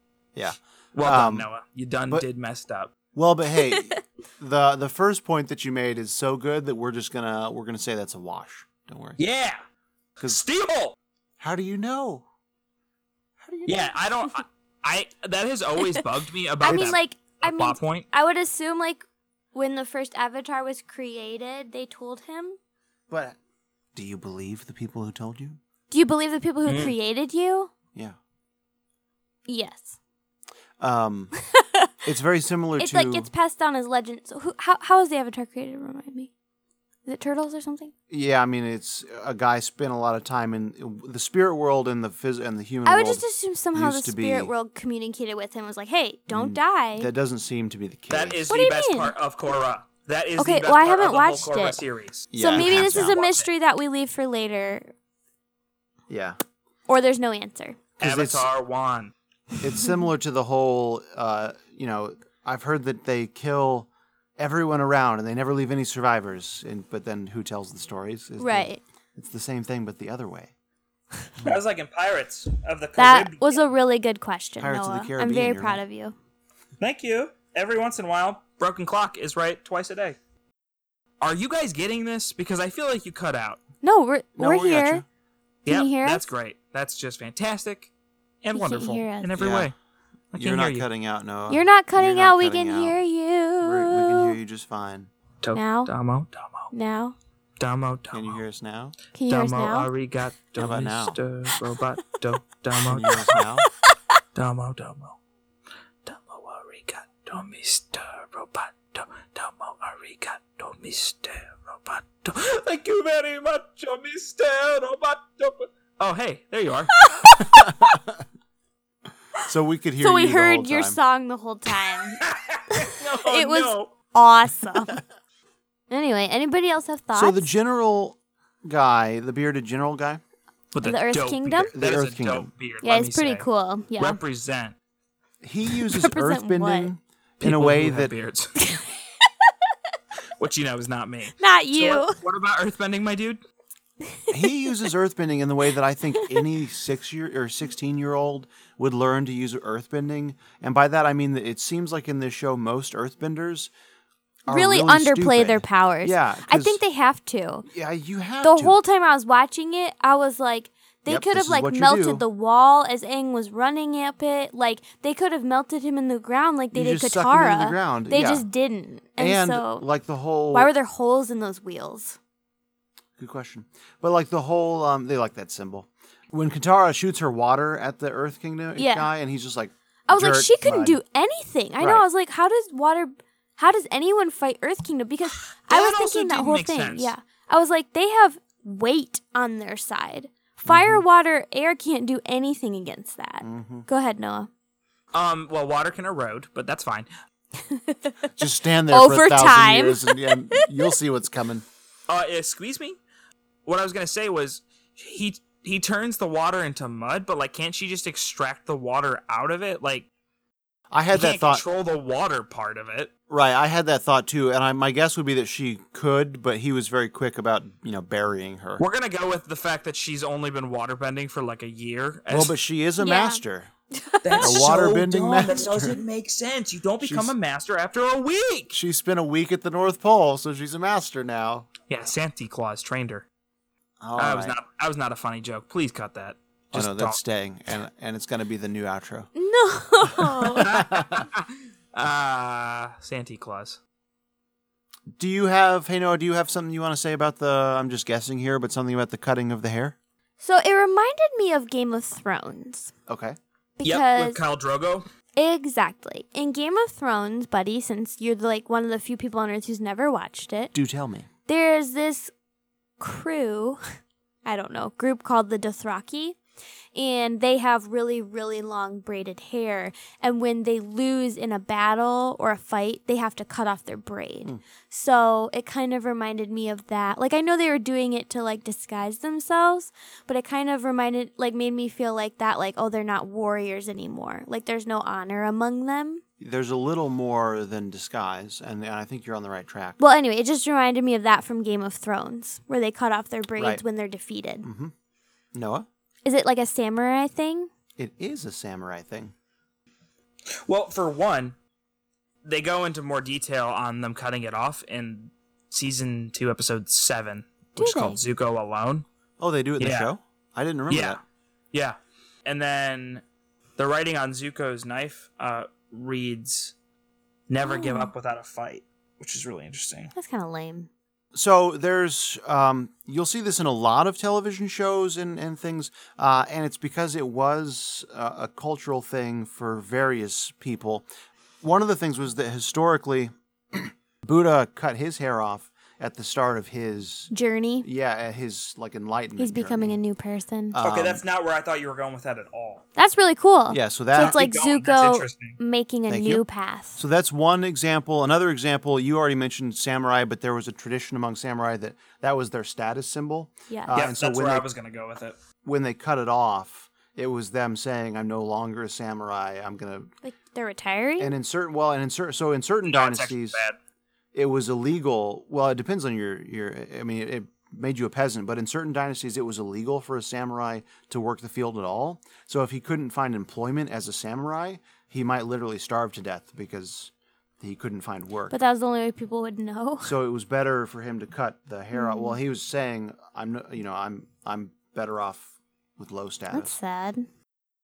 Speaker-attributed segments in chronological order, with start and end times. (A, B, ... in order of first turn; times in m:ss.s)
0:00.4-0:01.5 A
0:00.9-0:02.9 B
0:03.2-0:09.2 A
0:09.2-0:09.6 B
0:10.2-0:11.0 B
0:11.4-0:12.2 A
0:13.4-0:13.9 A
0:13.7-0:18.1 B
0:16.6-0:22.6 C
0:23.1-0:23.4 A
0:24.0-0:25.6 A
0:25.9-0:27.7 C
0:26.7-0:26.9 B
0:29.5-0:30.0 C
0:30.8-0:31.3 A
0:31.5-0:31.9 C
0:32.0-0:33.3 A
0:32.8-0:36.3 C
0:37.1-0:37.9 C
0:38.1-0:44.5 A
0:42.8-0:47.1 C
0:46.3-0:48.4 A
0:48.1-0:53.5 B
0:48.5-0:49.1 C
0:50.4-0:51.8 C
0:52.3-0:53.2 A
0:52.4-0:54.9 C
0:56.1-0:56.4 A
0:56.9-0:57.8 C
0:58.0-0:58.5 A
0:58.0-0:59.1 B
0:59.6-1:10.5 A
1:08.4-1:08.8 C
1:11.4-1:13.6 B
1:13.0-1:16.2 C
1:14.6-1:15.8 A
1:16.8-1:20.2 B
1:21.2-1:23.6 B
1:23.8-1:25.0 C
1:24.4-1:25.0 A
1:25.7-1:26.3 C
1:25.7-1:27.9 B
1:28.4-1:29.7 B
1:28.5-1:29.3 C
1:29.4-1:29.7 A
1:30.3-1:30.9 B
1:30.3-1:33.0 A
1:31.5-1:34.4 C
1:33.6-1:35.1 A
1:35.4-1:36.7 B
1:35.5-1:35.9 C
1:36.7-1:37.2 C
1:37.6-1:38.4 B
1:38.1-1:39.0 A
1:39.1-1:39.9 C
1:39.3-1:43.4 B
1:40.6-1:41.2 A
1:42.9-1:43.7 A
1:44.4-1:45.2 B
1:46.0-1:57.7 B
1:57.1-1:57.3 C
1:57.6-1:58.0 A
1:59.4-2:01.0 A
2:00.0-2:02.2 C
2:01.9-2:03.9 B
2:02.7-2:05.0 C
2:05.9-2:07.5 C
2:07.1-2:10.2 A
2:10.7-2:14.8 B
2:10.8-2:11.7 C
2:11.7-2:12.5 A
2:12.8-2:14.2 C
2:15.4-2:18.1 A
2:15.8-2:16.9 C
2:17.4-2:18.8 B
2:20.4-2:23.4 B
2:21.4-2:22.2 C
2:24.3-2:33.7 A
2:34.5-2:36.8 A
2:34.5-2:37.7 C
2:37.7-2:38.8 A
2:38.4-2:49.8 C
2:41.1-2:42.2 A
2:46.7-2:48.5 A
2:49.2-2:50.7 A
2:50.5-2:52.2 C
2:53.2-3:01.0 A
2:58.8-2:59.1 C
3:00.1-3:14.5 C
3:05.7-3:07.1 B
3:10.7-3:11.0 A
3:13.4-3:13.9 A
3:15.1-3:17.1 B
3:17.6-3:18.3 C
3:18.4-3:21.6 A
3:18.9-3:20.7 C
3:22.1-3:23.0 B
3:23.6-3:30.1 B
3:30.9-3:31.6 A
3:31.1-3:33.1 B
3:33.3-3:38.8 A
3:38.8-3:42.6 B
3:42.3-3:43.7 A
3:43.0-3:43.4 C
3:44.0-3:44.6 C
3:44.2-3:48.8 B
3:44.4-3:46.0 A
3:47.0-3:47.3 A
3:48.7-3:51.7 A
3:51.9-3:53.2 B
3:54.0-3:54.6 A
3:54.2-3:57.2 B
3:56.7-3:59.3 A
3:59.4-4:00.7 C
4:00.6-4:01.3 A
4:00.6-4:01.4 B
4:01.9-4:03.8 B
4:05.2-4:10.0 A
4:10.4-4:12.9 C
4:13.1-4:13.4 A
4:13.8-4:14.4 C
4:13.8-4:15.1 B
4:15.4-4:20.7 C
4:20.7-4:21.3 A
4:21.5-4:22.3 C
4:23.0-4:23.8 C
4:24.4-4:26.4 C
4:27.0-4:46.2 C
4:46.4-4:50.0 A
4:50.0-4:54.7 C
4:53.6-4:53.8 A
4:54.6-4:54.9 A
4:55.5-4:55.9 A
4:56.2-4:57.7 C
4:58.0-4:59.3 A
5:00.7-5:01.6 B
5:02.4-5:09.0 B
5:07.8-5:08.2 C
5:09.4-5:11.2 A
5:09.8-5:10.1 B
5:10.9-5:11.2 B
5:11.7-5:13.2 B
5:13.8-5:16.8 B
5:17.5-5:20.1 B
5:17.6-5:18.1 C
5:20.2-5:20.9 C
5:21.3-5:31.1 A
5:31.6-5:37.3 A
5:37.3-5:37.9 C
5:37.8-5:40.0 A
5:39.4-5:40.8 C
5:40.7-5:41.2 A
5:40.8-5:42.8 B
5:43.0-5:47.0 C
5:43.7-5:44.4 A
5:44.2-5:45.6 B
5:46.1-5:46.4 A
5:47.0-5:54.7 A
5:53.7-5:54.0 C
5:53.9-5:55.4 B
5:55.6-6:00.1 A
6:00.2-6:01.3 C
6:01.2-6:03.6 A
6:02.9-6:03.8 B
6:04.3-6:18.6 A
6:18.5-6:20.1 C
6:20.0-6:26.8 A
6:21.9-6:22.4 C
6:26.5-6:27.3 C